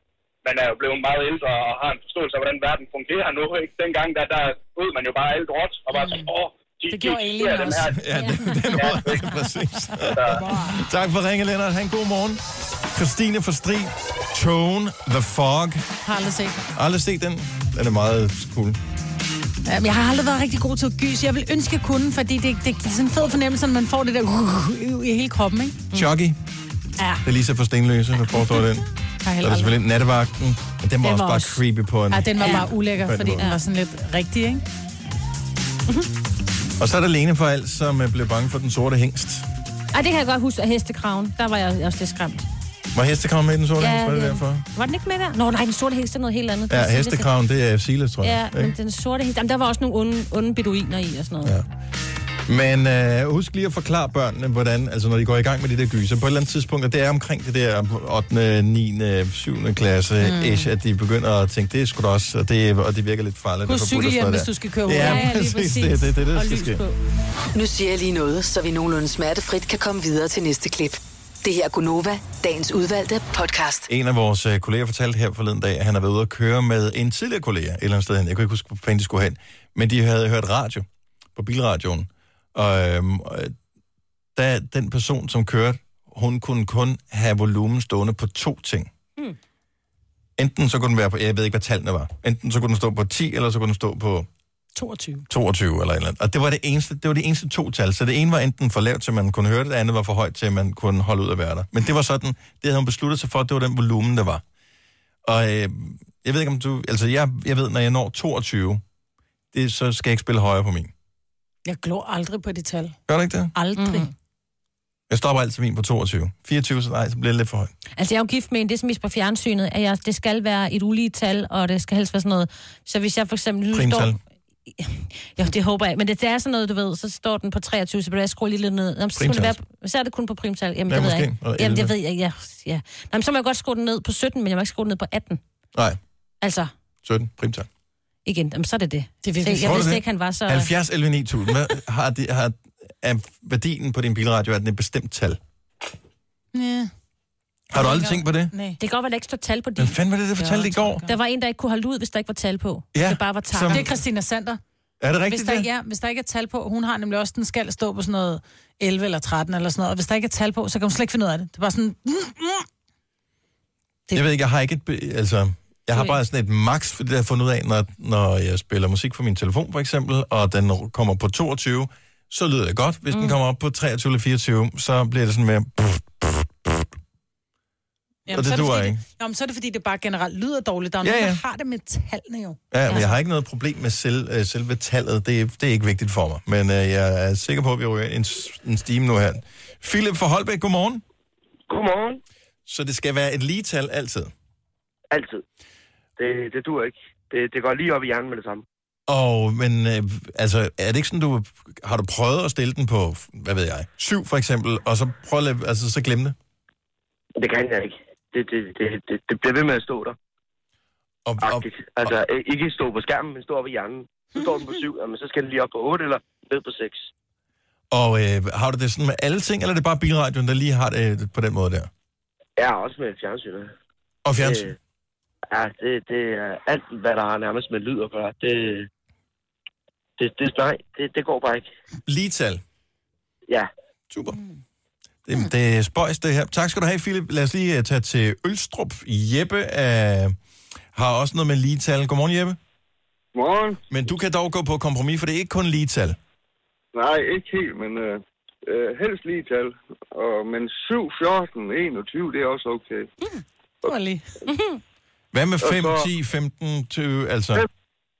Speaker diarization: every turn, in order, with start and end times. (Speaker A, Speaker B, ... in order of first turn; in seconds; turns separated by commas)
Speaker A: 0.4-8.0, Speaker B: 5.9-6.3, Speaker B: 6.9-8.7, Speaker C: 7.9-15.8, Speaker A: 8.8-9.2, Speaker B: 10.1-10.8, Speaker B: 16.0-16.6, Speaker C: 16.7-18.8, Speaker B: 19.6-25.9, Speaker C: 25.9-26.4, Speaker C: 27.2-28.9, Speaker B: 29.2-29.8, Speaker C: 29.4-33.5, Speaker B: 32.1-34.6, Speaker D: 32.4-32.7, Speaker C: 36.8-39.5, Speaker D: 39.9-42.5, Speaker C: 42.9-44.6, Speaker D: 43.8-47.3, Speaker C: 46.7-48.7, Speaker D: 48.2-51.5, Speaker C: 52.5-66.8, Speaker B: 63.6-65.3, Speaker D: 64.9-67.0, Speaker E: 67.5-73.9, Speaker C: 73.9-83.5, Speaker C: 84.3-88.9, Speaker C: 90.4-94.3, Speaker B: 94.8-95.3, Speaker C: 95.3-104.4, Speaker C: 105.2-108.8, Speaker C: 109.5-110.9, Speaker B: 111.7-113.0, Speaker C: 113.1-113.5, Speaker B: 113.5-114.1, Speaker D: 113.8-114.1, Speaker C: 115.1-117.7, Speaker D: 118.0-124.1, Speaker C: 123.7-124.2, Speaker D: 124.7-135.4, Speaker C: 129.2-129.5, Speaker C: 130.9-131.9, Speaker C: 135.7-136.0, Speaker D: 136.4-136.7, Speaker C: 137.0-137.7, Speaker D: 138.2-140.7, Speaker B: 139.2-139.9, Speaker C: 139.6-145.4, Speaker B: 146.5-146.9, Speaker C: 147.7-148.5, Speaker B: 147.8-148.8, Speaker D: 148.8-149.9, Speaker C: 149.8-151.0, Speaker B: 150.4-151.1, Speaker D: 151.1-153.9, Speaker C: 152.9-153.8, Speaker B: 153.7-154.6, Speaker C: 155.0-155.7, Speaker B: 155.3-162.7, Speaker C: 164.1-176.9, Speaker B: 178.3-182.6, Speaker C: 178.3-179.0, Speaker C: 181.0-181.4, Speaker C: 182.7-191.0, Speaker F: 191.7-192.2, Speaker C: 192.7-194.3, Speaker F: 195.1-195.4, Speaker F: 196.2-198.6, Speaker C: 199.1-206.3, Speaker F: 207.4-210.2, Speaker C: 211.2-212.1, Speaker F: 211.4-217.1, Speaker C: 217.9-221.9, Speaker F: 222.6-223.7, Speaker C: 224.2-224.7, Speaker F: 224.4-224.8, Speaker F: 225.5-228.9, Speaker F: 230.2-231.7, Speaker C: 232.1-232.6, Speaker C: 234.1-234.4, Speaker C: 235.2-240.3, Speaker C: 240.9-242.6, Speaker G: 243.3-243.8, Speaker C: 243.9-246.2, Speaker G: 246.9-253.1, Speaker B: 253.8-254.3, Speaker D: 254.5-254.8, Speaker C: 255.3-257.7, Speaker G: 255.6-256.1